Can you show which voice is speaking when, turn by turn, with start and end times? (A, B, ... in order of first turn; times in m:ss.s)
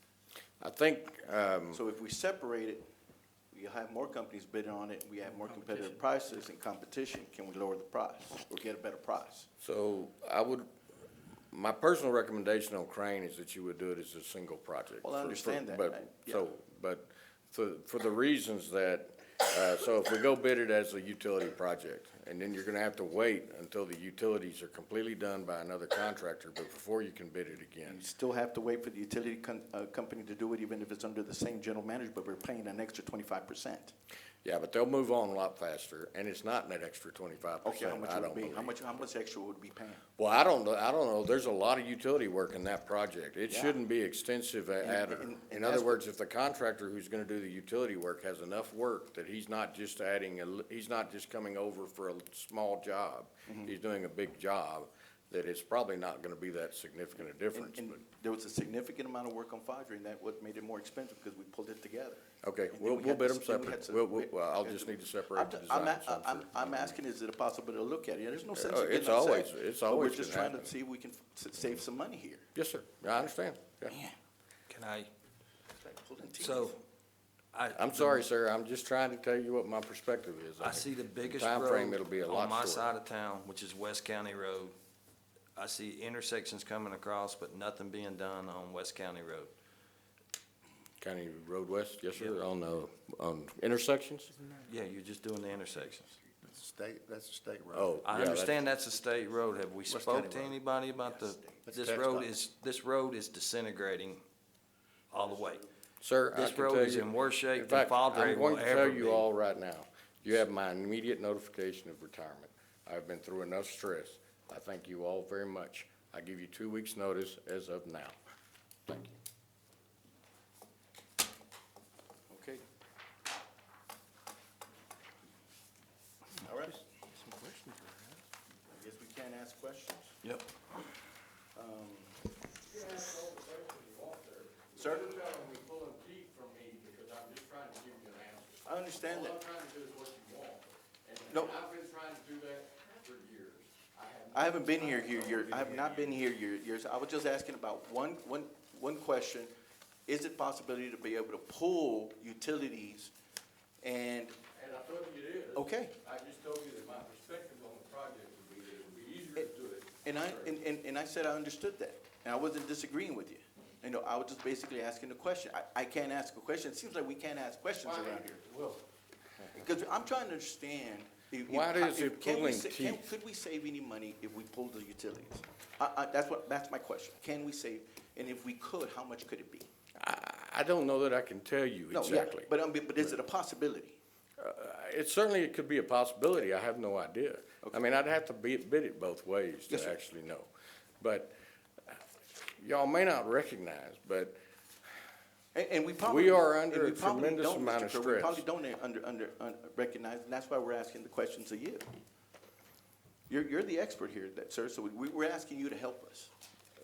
0:00.6-0:01.8 A
0:01.7-0:02.8 B
0:03.5-0:09.5 B
0:09.6-0:10.7 A
0:11.5-0:28.0 A
0:15.0-0:16.5 B
0:27.8-0:33.9 B
0:34.4-0:38.8 A
0:37.6-0:40.0 B
0:40.2-0:58.0 A
0:43.5-0:43.8 B
0:44.8-0:46.0 B
0:53.5-0:53.7 B
0:57.5-1:12.5 B
1:02.4-1:07.0 A
1:08.6-1:10.7 A
1:12.6-1:14.0 A
1:13.9-1:14.2 B
1:14.7-1:15.1 C
1:15.8-1:16.8 B
1:16.4-1:16.8 C
1:17.5-1:18.2 C
1:17.8-1:23.0 A
1:20.6-1:24.8 C
1:25.6-1:29.5 C
1:31.0-1:34.3 A
1:34.7-1:36.2 C
1:36.4-1:38.1 D
1:37.7-1:38.6 A
1:38.0-1:44.2 C
1:39.9-1:40.6 D
1:41.6-1:42.3 D
1:45.1-1:45.6 C
1:46.0-1:58.2 A
1:46.3-1:49.3 C
1:58.9-1:59.2 A
2:02.3-2:02.6 B
2:06.4-2:06.8 B
2:07.2-2:08.0 A
2:08.7-2:10.2 B
2:11.6-2:12.1 B
2:12.7-2:26.2 A
2:14.8-2:15.4 B
2:18.6-2:19.4 B
2:21.3-2:21.6 B
2:24.3-2:29.5 B
2:30.1-2:33.1 B
2:33.8-2:34.4 B
2:34.5-2:40.6 A
2:35.6-2:36.0 B
2:40.0-2:48.4 B
2:47.8-2:48.8 A
2:49.5-2:59.7 B
2:51.5-2:53.1 A
3:00.0-3:02.5 A
3:01.9-3:04.0 B
3:04.4-3:10.5 A
3:09.7-3:10.0 B
3:11.0-3:11.3 A
3:12.6-3:14.4 A
3:15.5-3:21.9 B
3:16.0-3:18.4 A
3:23.3-3:26.3 B